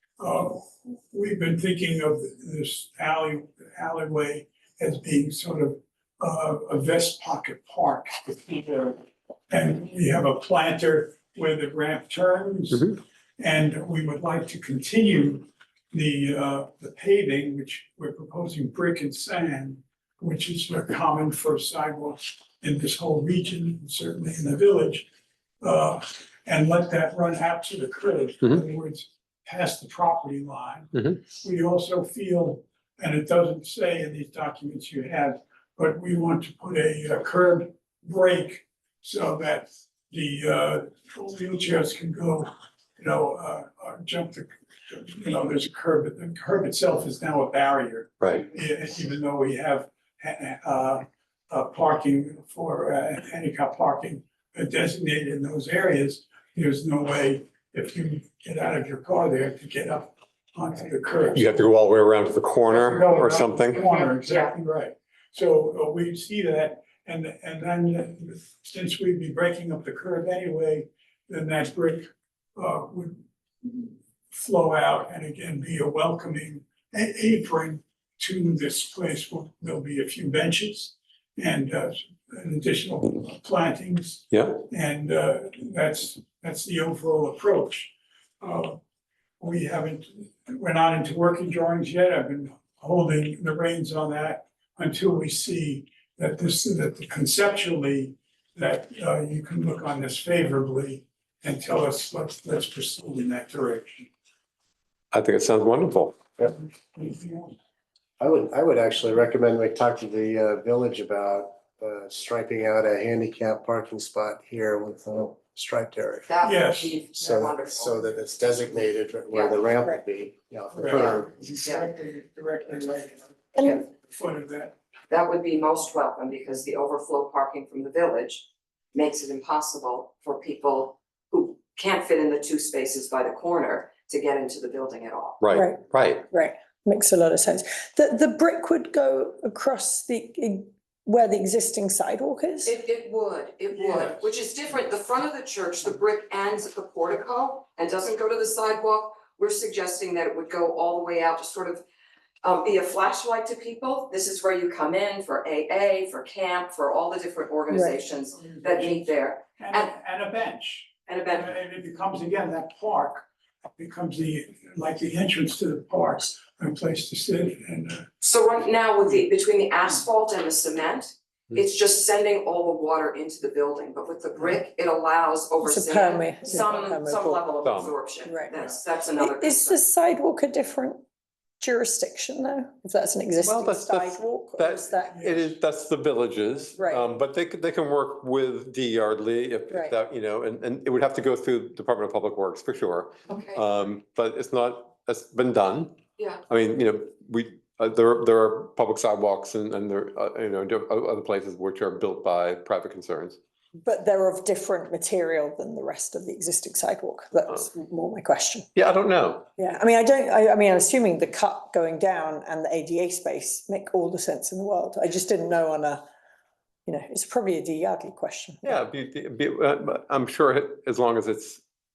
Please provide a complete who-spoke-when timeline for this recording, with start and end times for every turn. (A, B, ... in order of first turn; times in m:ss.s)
0:00.2-0:25.1 A
0:25.6-1:01.6 A
0:48.2-0:48.4 B
1:01.3-1:03.8 B
1:02.7-1:28.8 A
1:04.0-1:04.5 C
1:29.4-1:44.1 A
1:45.1-1:46.2 B
1:46.9-1:47.5 A
1:48.2-1:56.3 D
1:56.3-1:58.4 C
1:56.4-1:57.0 A
1:57.1-2:01.3 D
1:59.3-1:59.6 C
2:00.7-2:04.8 A
2:05.1-2:15.4 C
2:15.4-2:16.3 B
2:15.5-2:22.8 E
2:22.6-2:31.8 C
2:23.7-2:24.2 A
2:32.4-2:39.9 C
2:37.7-2:38.0 E
2:38.4-2:39.0 A
2:39.6-2:43.2 A
2:41.1-2:41.5 C
2:43.8-2:48.1 A
2:48.2-2:59.8 C
2:55.6-2:57.6 E
2:57.6-2:58.0 B
2:58.2-3:01.0 E
3:01.6-3:05.2 E
3:03.4-3:23.4 B
3:05.1-3:05.5 A
3:06.8-3:07.1 E
3:13.3-3:13.6 C
3:23.8-3:28.7 E
3:28.7-3:29.5 B
3:29.6-3:36.0 E
3:36.8-3:38.8 E
3:38.6-3:41.6 B